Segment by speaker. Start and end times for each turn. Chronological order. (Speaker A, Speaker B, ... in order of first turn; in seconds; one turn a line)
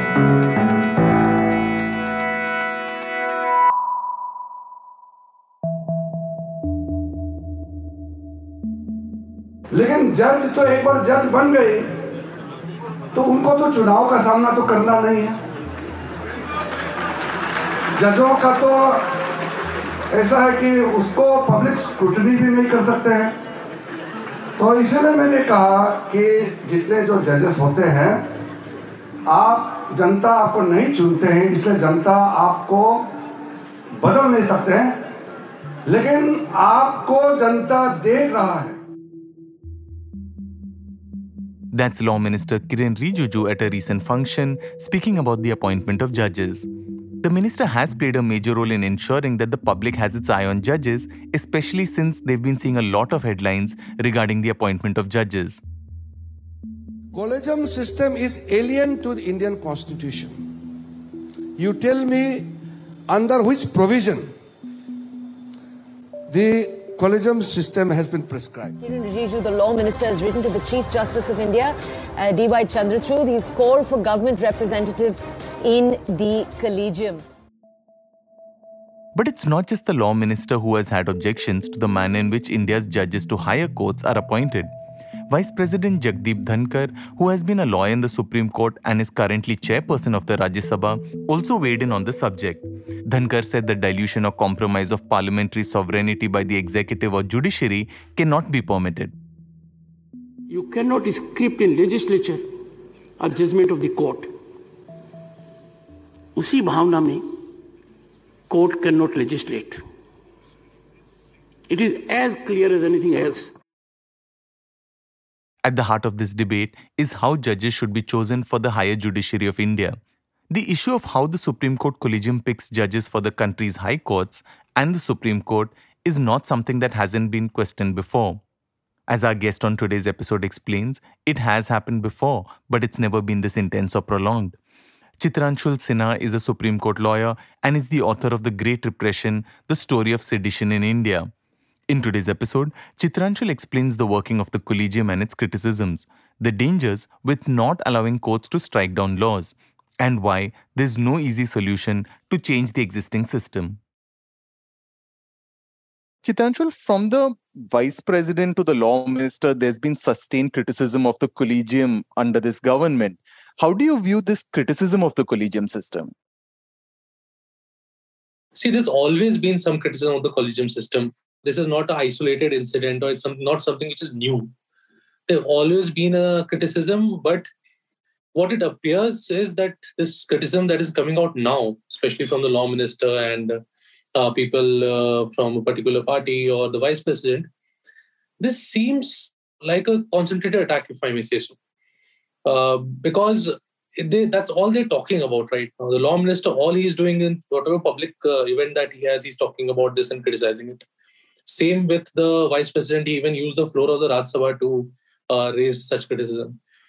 Speaker A: 9.7-11.9
Speaker A: 13.1-15.4
Speaker A: 17.9-19.1
Speaker A: 20.1-23.3
Speaker A: 24.6-28.3
Speaker A: 29.2-33.0
Speaker A: 34.0-35.0
Speaker A: 35.9-38.8
Speaker B: 41.7-46.7
Speaker B: 47.2-55.6
Speaker A: 57.1-60.4
Speaker A: 61.5-62.6
Speaker A: 63.1-64.3
Speaker A: 66.3-68.8
Speaker C: 68.8-77.2
Speaker B: 79.1-84.7
Speaker B: 85.3-99.1
Speaker D: 100.5-102.5
Speaker D: 103.2-104.3
Speaker D: 106.3-107.3
Speaker D: 108.5-109.8
Speaker D: 111.7-113.5
Speaker B: 115.6-120.0
Speaker B: 120.5-128.4
Speaker B: 129.1-134.6
Speaker B: 135.2-141.3
Speaker B: 141.9-153.8
Speaker B: 156.2-166.1
Speaker E: 168.5-174.5
Speaker E: 175.3-177.4
Speaker E: 178.3-183.6
Speaker E: 184.1-187.5
Speaker E: 188.4-191.6
Speaker E: 192.4-200.8
Speaker E: 201.5-206.6